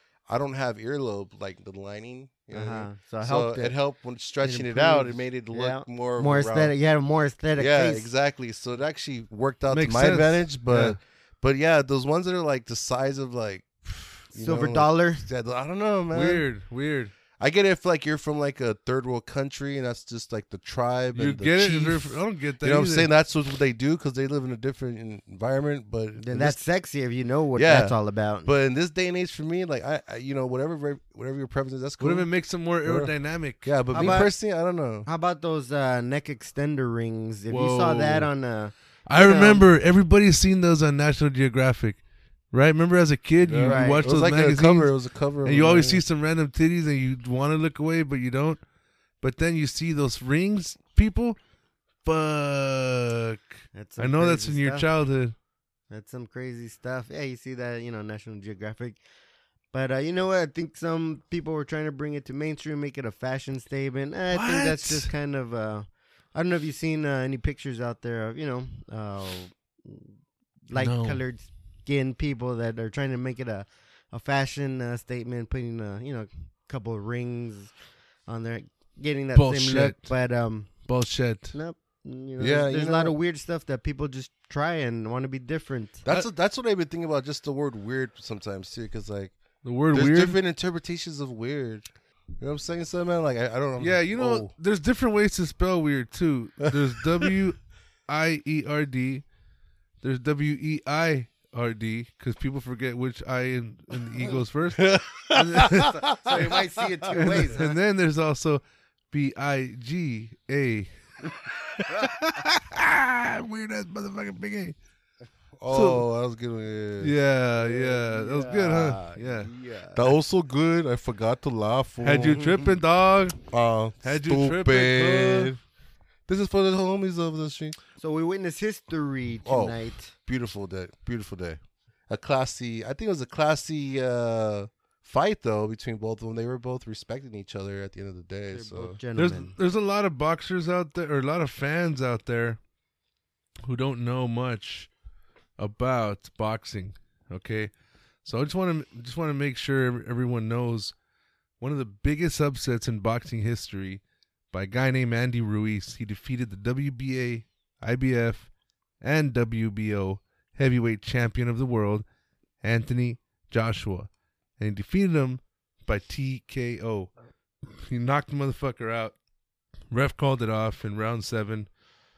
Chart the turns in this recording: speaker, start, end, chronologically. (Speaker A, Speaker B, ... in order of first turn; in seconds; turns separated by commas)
Speaker A: 0.3-6.7, Speaker B: 2.5-3.8, Speaker B: 4.4-8.1, Speaker A: 7.6-16.5, Speaker C: 9.7-11.0, Speaker B: 14.3-15.2, Speaker C: 16.1-17.1, Speaker A: 17.4-26.6, Speaker C: 21.1-23.1, Speaker B: 26.2-28.5, Speaker A: 27.5-32.3, Speaker C: 32.0-34.2, Speaker A: 32.8-35.1, Speaker B: 33.9-34.3, Speaker B: 35.0-39.6, Speaker C: 37.5-38.3, Speaker C: 39.1-42.0, Speaker C: 42.5-44.9, Speaker A: 43.4-46.0, Speaker B: 43.6-44.0, Speaker C: 45.4-48.6, Speaker C: 49.2-51.4, Speaker C: 52.0-53.4, Speaker B: 53.7-54.9, Speaker C: 54.0-55.3, Speaker B: 55.9-59.0, Speaker B: 59.7-70.2, Speaker C: 64.3-65.1, Speaker B: 70.7-77.7, Speaker C: 70.7-71.2, Speaker B: 78.2-80.7, Speaker C: 79.3-80.1, Speaker C: 80.8-81.5, Speaker B: 81.5-86.0, Speaker A: 82.4-83.2, Speaker A: 86.0-89.3, Speaker C: 89.6-90.4, Speaker A: 89.9-94.5, Speaker C: 93.8-99.2, Speaker A: 96.7-97.3, Speaker C: 100.0-106.0, Speaker A: 104.8-106.5, Speaker B: 106.1-107.8, Speaker A: 107.1-107.4, Speaker C: 107.1-110.9, Speaker C: 111.7-114.8, Speaker A: 115.6-117.2, Speaker C: 115.7-116.0, Speaker C: 117.0-119.5, Speaker B: 117.5-120.1, Speaker A: 119.9-122.7, Speaker C: 122.0-123.4, Speaker A: 123.5-125.6, Speaker C: 124.0-125.5, Speaker A: 126.3-127.8, Speaker B: 128.0-130.1, Speaker A: 129.4-139.0, Speaker B: 138.5-139.5, Speaker C: 139.2-142.6, Speaker C: 143.6-144.9, Speaker C: 145.6-147.7, Speaker C: 148.2-150.9, Speaker C: 151.6-158.5, Speaker C: 159.0-162.0, Speaker C: 162.6-167.1, Speaker C: 167.8-169.2, Speaker C: 169.9-171.7